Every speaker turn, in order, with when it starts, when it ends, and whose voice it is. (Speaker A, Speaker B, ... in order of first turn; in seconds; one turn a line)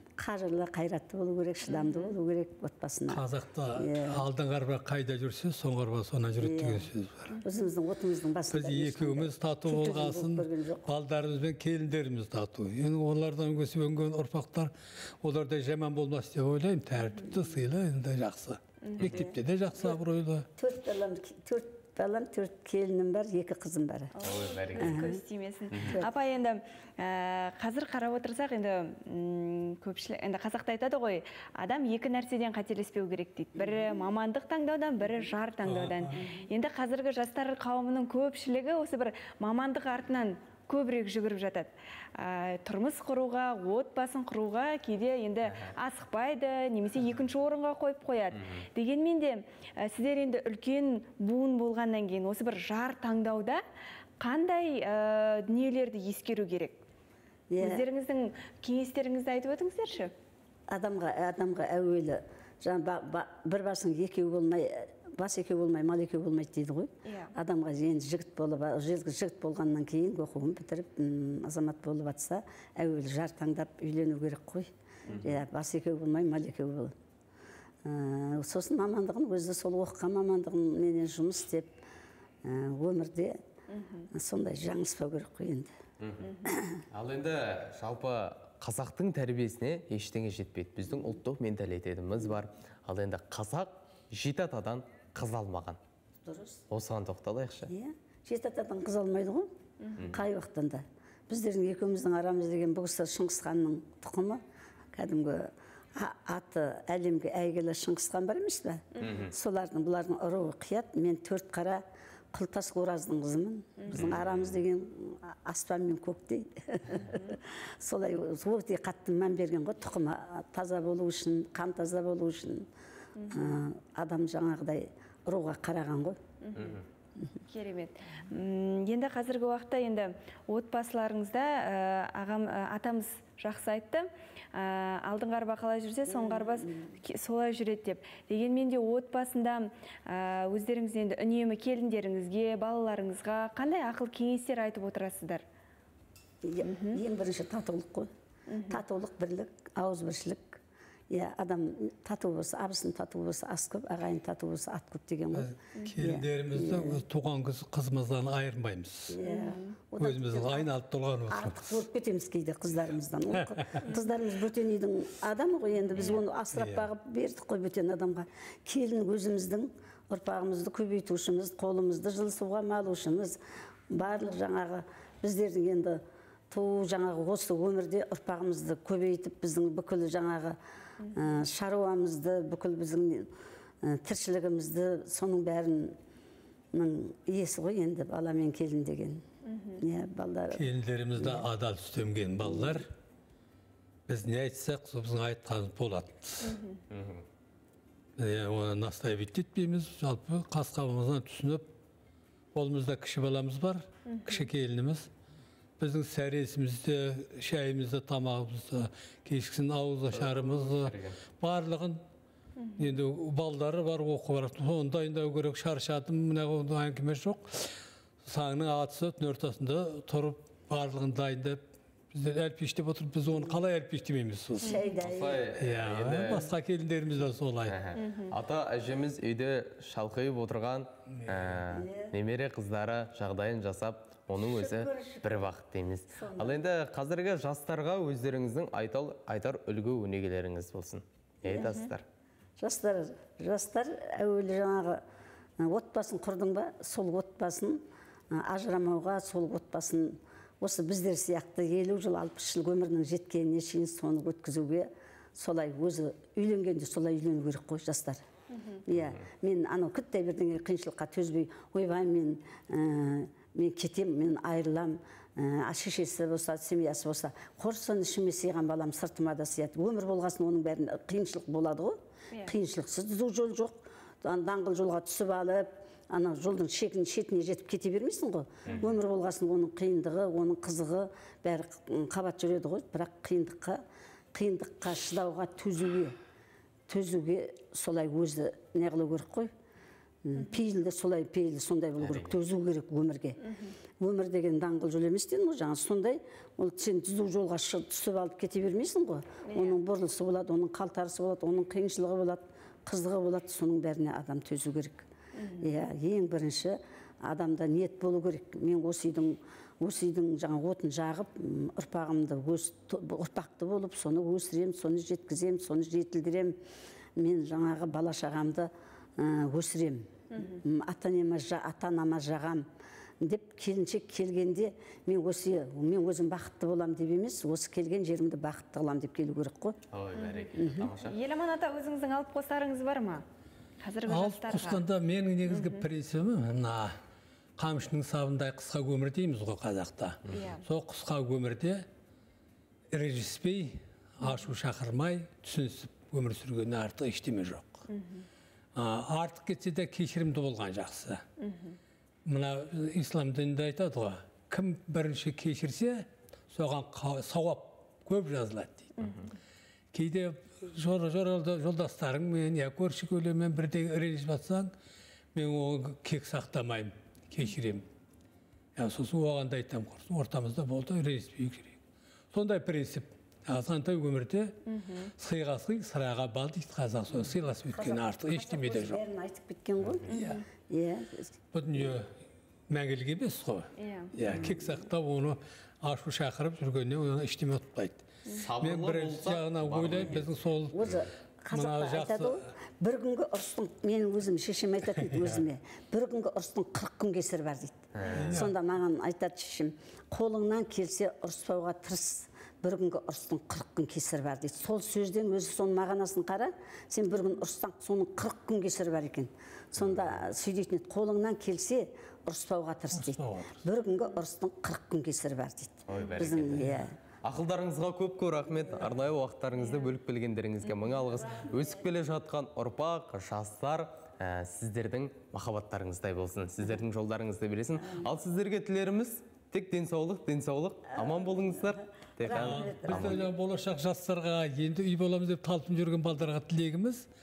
Speaker A: 0.2-3.2
Speaker B: 1.7-2.1
Speaker C: 3.1-7.3
Speaker A: 3.8-4.2
Speaker A: 6.4-6.9
Speaker B: 7.3-7.7
Speaker A: 7.4-10.9
Speaker C: 8.5-20.5
Speaker B: 18.8-19.1
Speaker D: 19.0-19.3
Speaker A: 19.1-20.0
Speaker A: 20.6-24.1
Speaker B: 24.2-53.6
Speaker D: 24.2-25.1
Speaker A: 24.8-25.2
Speaker D: 25.7-26.0
Speaker A: 33.6-34.0
Speaker C: 35.6-36.2
Speaker D: 45.5-45.7
Speaker B: 54.2-56.8
Speaker A: 57.5-57.8
Speaker B: 57.6-60.1
Speaker A: 60.7-74.7
Speaker B: 67.0-67.3
Speaker B: 75.1-75.3
Speaker D: 75.1-75.4
Speaker A: 75.2-76.9
Speaker A: 77.8-81.8
Speaker A: 82.4-83.4
Speaker B: 83.7-84.1
Speaker A: 84.1-85.7
Speaker D: 86.0-86.3
Speaker B: 86.2-86.5
Speaker D: 86.9-95.8
Speaker A: 96.2-96.6
Speaker D: 96.7-97.7
Speaker A: 97.7-99.5
Speaker B: 99.8-100.1
Speaker D: 100.0-100.2
Speaker A: 100.1-104.4
Speaker A: 104.9-111.8
Speaker B: 109.0-109.2
Speaker D: 109.0-109.3
Speaker A: 112.3-122.7
Speaker B: 113.8-114.1
Speaker D: 113.9-114.6
Speaker B: 123.2-123.6
Speaker A: 123.3-126.2
Speaker B: 126.4-126.8
Speaker D: 126.6-126.8
Speaker B: 127.5-145.4
Speaker A: 136.1-136.9
Speaker A: 146.4-148.1
Speaker B: 146.6-147.0
Speaker B: 148.5-148.8
Speaker A: 148.7-157.0
Speaker C: 155.3-159.2
Speaker A: 159.1-160.7
Speaker B: 159.2-159.7
Speaker C: 160.0-161.8
Speaker A: 161.3-173.4
Speaker C: 166.6-166.8
Speaker A: 173.9-176.0
Speaker A: 176.5-180.6
Speaker B: 181.0-181.3
Speaker A: 181.2-183.3
Speaker A: 183.8-185.9
Speaker A: 186.7-189.2
Speaker B: 189.4-189.8
Speaker A: 189.8-191.5
Speaker C: 190.5-192.9
Speaker A: 192.4-192.8
Speaker C: 194.1-196.6
Speaker B: 196.4-196.8
Speaker D: 196.9-197.2
Speaker C: 198.2-201.7
Speaker C: 202.5-205.1
Speaker B: 204.1-204.5
Speaker C: 205.8-212.0
Speaker D: 210.1-211.2
Speaker B: 212.6-212.9
Speaker C: 212.8-217.7
Speaker C: 218.2-221.6
Speaker C: 222.1-224.8
Speaker A: 224.6-225.5
Speaker B: 224.6-225.0
Speaker D: 225.0-226.5
Speaker C: 225.6-227.8
Speaker D: 227.7-242.1
Speaker B: 228.0-228.3
Speaker A: 231.7-232.1
Speaker A: 234.4-235.5
Speaker A: 236.1-236.6
Speaker A: 241.4-241.9
Speaker A: 242.6-245.0
Speaker A: 245.6-247.8
Speaker A: 248.3-258.2
Speaker B: 258.5-258.8
Speaker A: 258.9-283.8
Speaker A: 284.3-286.1
Speaker A: 286.9-289.5
Speaker A: 290.2-293.4
Speaker D: 292.0-292.3
Speaker A: 294.0-305.1
Speaker B: 299.4-299.8
Speaker B: 305.4-305.7
Speaker A: 305.6-316.6
Speaker A: 317.2-322.6
Speaker B: 320.3-320.6
Speaker A: 323.2-329.8
Speaker D: 329.9-331.1
Speaker B: 330.2-330.5
Speaker A: 330.5-330.9
Speaker B: 331.0-333.2
Speaker B: 333.8-334.8
Speaker C: 334.1-336.9
Speaker B: 335.5-335.9
Speaker C: 337.6-341.9
Speaker B: 340.3-340.6
Speaker C: 342.9-347.9
Speaker B: 347.9-348.2
Speaker C: 348.8-351.2
Speaker B: 351.4-351.8
Speaker C: 352.2-359.1
Speaker C: 359.9-364.7
Speaker C: 365.3-367.9
Speaker C: 368.8-371.8
Speaker C: 372.3-374.6
Speaker B: 374.7-375.1
Speaker C: 375.2-379.0
Speaker A: 377.7-380.1
Speaker B: 380.1-380.4
Speaker C: 380.1-380.4
Speaker A: 380.7-381.3
Speaker C: 381.5-382.1
Speaker C: 382.7-388.1
Speaker B: 383.8-384.1
Speaker D: 388.3-390.2
Speaker C: 388.6-390.9
Speaker A: 390.7-416.9
Speaker C: 391.5-392.4
Speaker D: 397.9-398.3
Speaker C: 398.1-398.6
Speaker D: 409.8-410.1
Speaker C: 412.9-413.6
Speaker D: 415.9-416.7
Speaker C: 416.6-416.9
Speaker D: 417.2-433.2
Speaker B: 419.6-419.9
Speaker A: 431.0-431.7
Speaker A: 432.2-433.3
Speaker C: 432.3-437.1